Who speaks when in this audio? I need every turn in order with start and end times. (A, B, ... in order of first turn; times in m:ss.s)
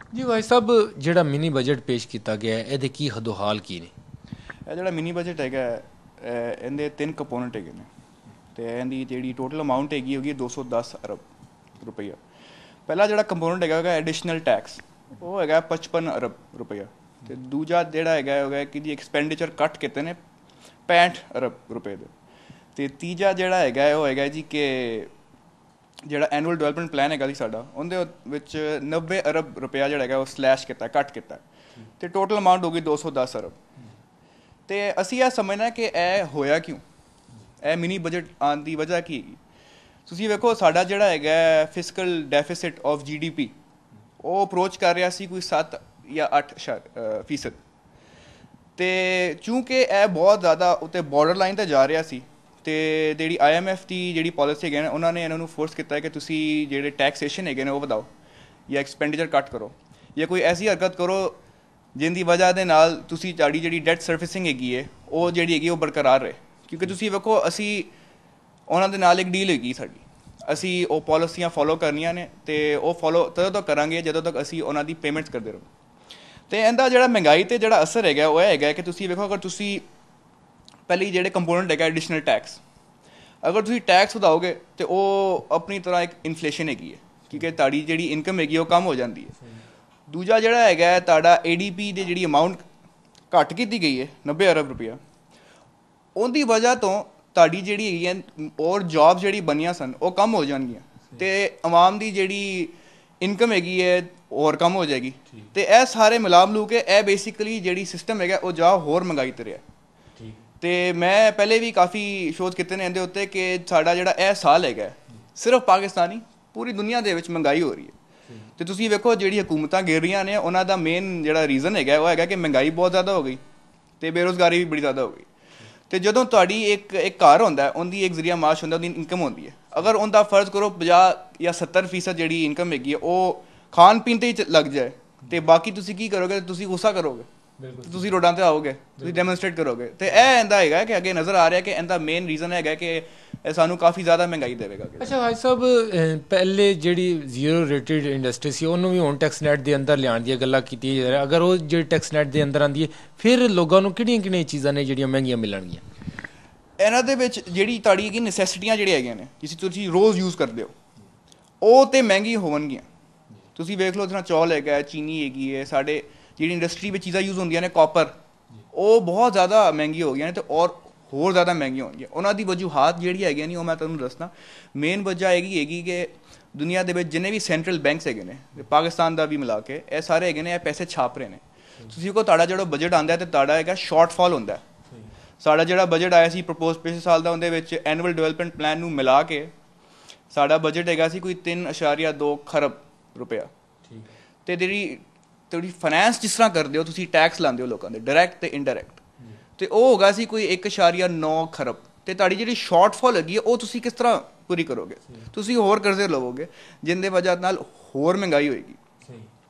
0:00.1-0:03.9 A
0:04.7-0:07.9 B
0:08.6-0:11.2 B
0:11.8-0:12.2 B
0:12.9-0:20.2 B
0:20.9-0:22.1 B
0:22.8-0:25.1 B
0:26.1-0:31.4 B
0:32.0-0:33.6 B
0:34.7-0:36.8 B
0:37.6-0:39.4 B
0:40.1-0:43.5 B
0:44.2-0:47.6 B
0:48.8-0:58.1 B
0:58.7-1:01.4 B
1:02.0-1:07.9 B
1:08.7-1:15.7 B
1:16.5-1:19.8 B
1:20.9-1:22.6 B
1:23.4-1:29.4 B
1:30.1-1:32.6 B
1:33.3-1:35.0 B
1:36.2-1:49.6 B
1:50.2-1:50.4 A
1:50.6-1:58.0 B
1:58.6-2:03.4 B
2:04.0-2:05.3 B
2:05.9-2:17.3 B
2:17.6-2:18.1 A
2:17.8-2:25.1 B
2:19.0-2:19.3 A
2:25.0-2:35.8 A
2:36.8-2:40.7 B
2:41.6-2:42.9 B
2:43.6-2:48.1 B
2:48.7-3:04.6 B
3:05.4-3:09.5 B
3:10.3-3:13.5 B
3:13.8-3:14.1 A
3:14.5-3:19.0 B
3:19.6-3:28.8 B
3:29.0-3:29.3 A